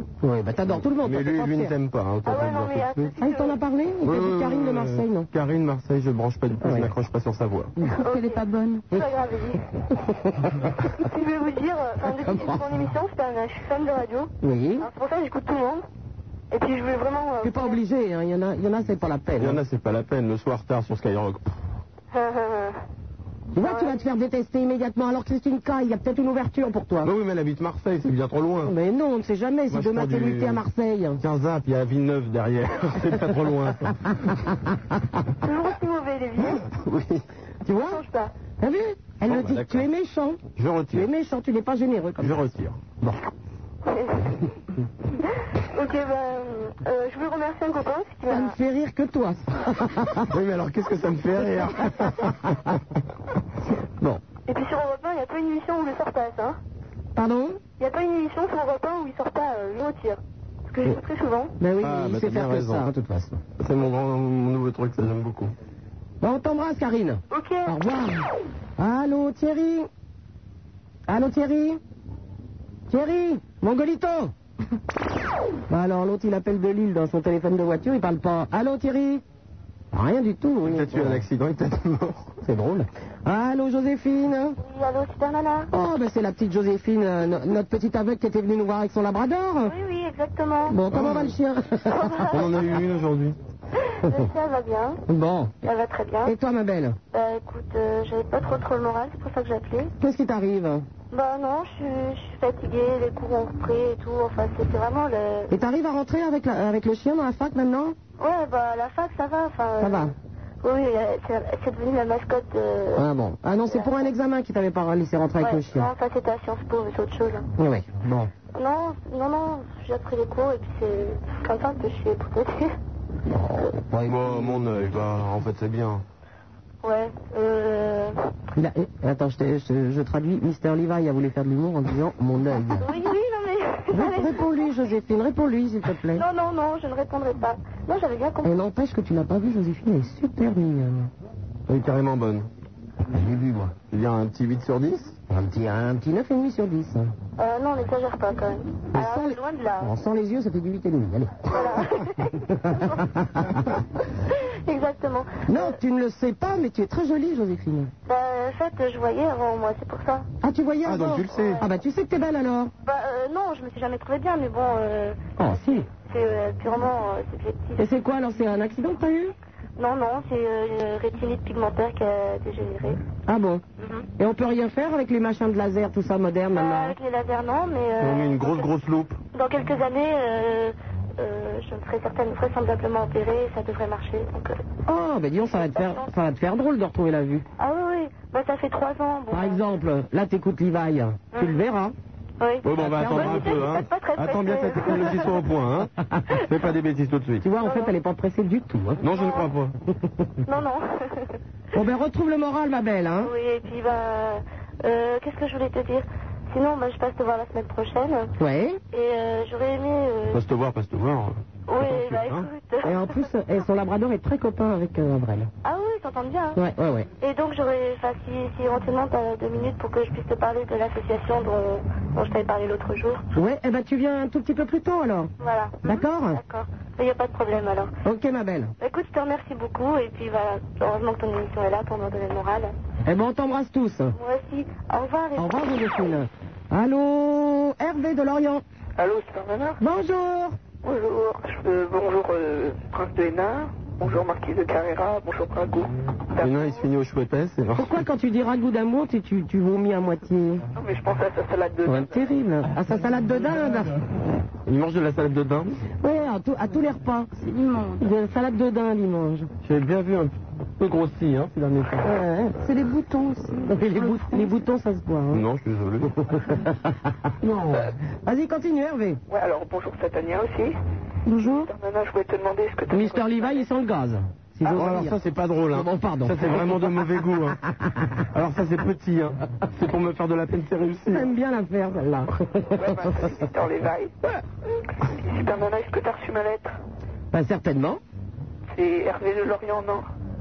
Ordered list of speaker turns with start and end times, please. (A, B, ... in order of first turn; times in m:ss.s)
0:00.2-0:01.7 A
0:00.9-0:03.1 B
0:02.2-0:03.6 C
0:03.2-0:05.3 A
0:04.0-0:07.7 B
0:06.6-0:06.9 A
0:08.0-0:08.9 D
0:08.0-0:09.6 C
0:09.9-0:10.6 A
0:11.0-0:15.8 C
0:12.0-0:12.6 A
0:14.4-0:14.9 A
0:16.5-0:17.8 C
0:17.4-0:19.6 A
0:19.4-0:21.5 B
0:22.1-0:22.8 C
0:23.5-0:27.1 A
0:23.6-0:24.1 C
0:27.0-0:28.7 B
0:28.6-0:31.2 A
0:29.7-0:30.6 B
0:31.2-0:34.3 B
0:35.4-0:36.6 C
0:36.9-0:37.2 B
0:37.6-0:38.0 A
0:37.8-0:38.3 C
0:38.6-0:40.4 A
0:39.2-0:39.9 B
0:40.6-0:41.1 B
0:40.9-0:42.4 A
0:42.2-0:42.8 B
0:43.8-0:44.3 C
0:45.7-0:48.5 C
0:48.3-0:50.3 A
0:50.3-0:52.8 B
0:54.5-0:56.6 C
0:57.2-0:57.6 A
0:57.8-1:01.5 C
1:01.6-1:03.4 A
1:01.8-1:02.9 B
1:03.6-1:05.5 B
1:06.2-1:08.2 A
1:07.3-1:07.7 C
1:08.8-1:09.9 A
1:11.1-1:11.8 A
1:12.9-1:14.3 A
1:15.7-1:19.2 A
1:19.9-1:21.2 A
1:20.6-1:22.3 B
1:22.4-1:24.6 A
1:24.6-1:25.7 C
1:25.7-1:29.7 A
1:29.7-1:30.8 C
1:30.7-1:32.3 A
1:30.9-1:31.3 B
1:31.9-1:32.5 C
1:32.3-1:33.4 B
1:33.8-1:35.0 C
1:35.1-1:35.5 A
1:35.6-1:36.3 C
1:36.2-1:37.0 A
1:37.1-1:39.9 C
1:40.0-1:40.8 A
1:41.1-1:45.5 C
1:45.5-1:48.0 A
1:48.2-1:50.1 C
1:49.8-1:50.1 A
1:50.6-1:53.0 C
1:52.9-1:55.9 A
1:53.7-1:54.1 C
1:55.4-1:57.4 C
1:57.6-1:58.3 A
1:58.6-2:02.7 C
2:03.2-2:05.0 A
2:04.0-2:06.0 B
2:06.8-2:08.1 C
2:08.5-2:12.8 A
2:12.8-2:14.5 C
2:13.9-2:16.2 A
2:16.1-2:18.5 C
2:18.4-2:21.1 A
2:21.7-2:22.5 B
2:23.1-2:23.7 A
2:23.9-2:25.2 B
2:25.3-2:27.1 A
2:27.4-2:29.9 C
2:28.9-2:31.9 A
2:31.5-2:33.0 C
2:32.4-2:33.6 A
2:34.7-2:35.7 C
2:35.4-2:37.9 A
2:38.1-2:40.3 C
2:40.4-2:42.7 A
2:40.8-2:41.6 B
2:41.3-2:41.6 C
2:42.8-2:45.2 C
2:45.4-2:45.9 A
2:46.1-2:47.8 C
2:47.8-2:49.3 A
2:49.8-2:53.0 C
2:53.3-2:53.6 A
2:54.2-2:56.9 A
2:56.5-2:58.7 C
2:58.0-2:59.2 B
2:59.3-3:04.6 C
3:04.8-3:07.4 A
3:05.6-3:06.0 C
3:07.6-3:09.6 C
3:09.3-3:11.9 A
3:11.3-3:11.6 C
3:12.4-3:15.4 C
3:12.6-3:17.4 B
3:12.8-3:13.8 A
3:14.6-3:15.3 A
3:17.4-3:19.0 A
3:17.6-3:17.9 C
3:19.0-3:19.7 B
3:19.1-3:19.5 C
3:20.4-3:21.4 C
3:21.7-3:23.3 A
3:23.2-3:28.3 C
3:28.4-3:28.8 A
3:28.9-3:30.4 C
3:30.3-3:32.5 B
3:31.7-3:33.0 C
3:32.8-3:35.5 A
3:35.6-3:36.6 C
3:36.6-3:37.1 A
3:37.2-3:43.2 C
3:43.3-3:45.3 A
3:45.4-3:47.9 C
3:45.8-3:46.4 A
3:48.0-3:48.7 A
3:48.8-3:52.7 C
3:53.0-3:54.1 A
3:54.2-3:55.6 C
3:55.4-3:58.6 A
3:59.0-3:59.8 E
3:59.8-4:00.6 A
4:00.8-4:06.7 E
4:06.4-4:08.0 B
4:07.8-4:10.6 A
4:10.8-4:12.3 E
4:11.8-4:14.0 A
4:14.6-4:15.7 B
4:16.0-4:17.3 A
4:17.3-4:18.1 D
4:18.0-4:19.5 A
4:19.6-4:22.1 B
4:22.0-4:22.6 A
4:22.6-4:24.6 D
4:23.6-4:25.4 A
4:25.3-4:26.1 B
4:26.1-4:26.9 A
4:28.2-4:29.2 A
4:29.3-4:30.8 E
4:31.2-4:31.7 D
4:31.4-4:33.7 E
4:32.9-4:35.2 A
4:34.7-4:37.6 B
4:35.7-4:36.8 A
4:38.3-4:41.3 B
4:41.1-4:43.4 A
4:42.8-4:44.2 E
4:45.1-4:46.7 E
4:47.3-4:48.0 A
4:48.7-4:50.1 E